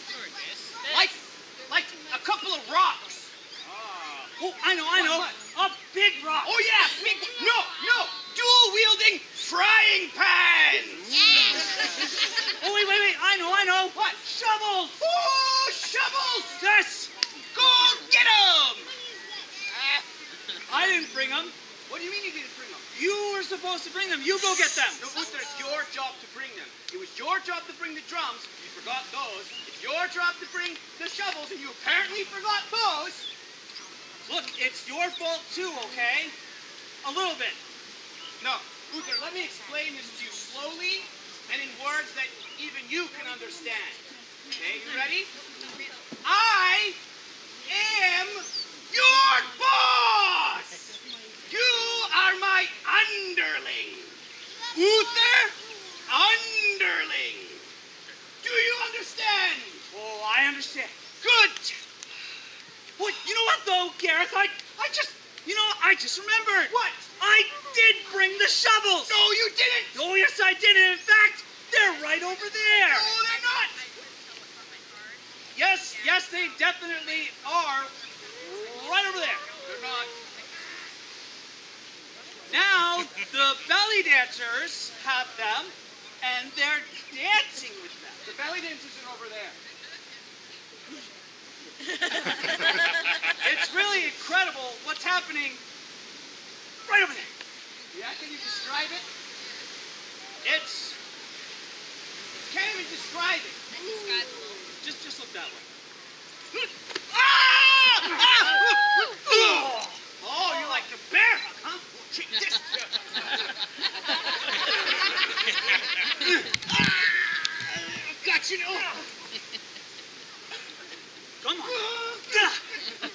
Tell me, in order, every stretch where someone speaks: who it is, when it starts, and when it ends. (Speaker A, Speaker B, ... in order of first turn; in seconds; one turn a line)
Speaker A: 0.9-4.3
Speaker B: 4.4-6.6
Speaker A: 4.9-5.3
Speaker A: 6.4-11.2
Speaker B: 12.6-15.0
Speaker A: 15.0-16.6
Speaker B: 16.6-17.1
Speaker A: 17.5-18.9
Speaker B: 20.7-21.6
Speaker A: 21.9-22.9
Speaker B: 22.9-25.0
Speaker A: 25.0-33.3
Speaker B: 34.3-36.3
Speaker B: 37.0-37.6
Speaker A: 38.4-45.3
Speaker A: 46.2-47.0
Speaker A: 47.6-50.9
Speaker A: 51.5-54.2
Speaker A: 54.7-55.5
Speaker A: 56.1-57.7
Speaker A: 58.4-59.8
Speaker B: 59.9-60.9
Speaker A: 61.2-61.8
Speaker B: 63.0-69.2
Speaker A: 66.7-67.0
Speaker A: 69.1-70.0
Speaker B: 69.9-73.1
Speaker A: 72.9-73.8
Speaker B: 75.5-79.5
Speaker A: 79.6-80.1
Speaker B: 82.5-88.2
Speaker A: 88.2-89.6
Speaker B: 93.3-95.6
Speaker B: 96.8-97.3
Speaker A: 97.9-99.0
Speaker B: 100.4-101.0
Speaker A: 102.5-104.3
Speaker B: 104.8-105.7
Speaker A: 107.1-112.8
Speaker B: 108.1-108.6
Speaker B: 109.2-110.0
Speaker B: 110.5-110.8
Speaker A: 116.2-119.0
Speaker B: 121.4-122.6
Speaker A: 121.7-122.5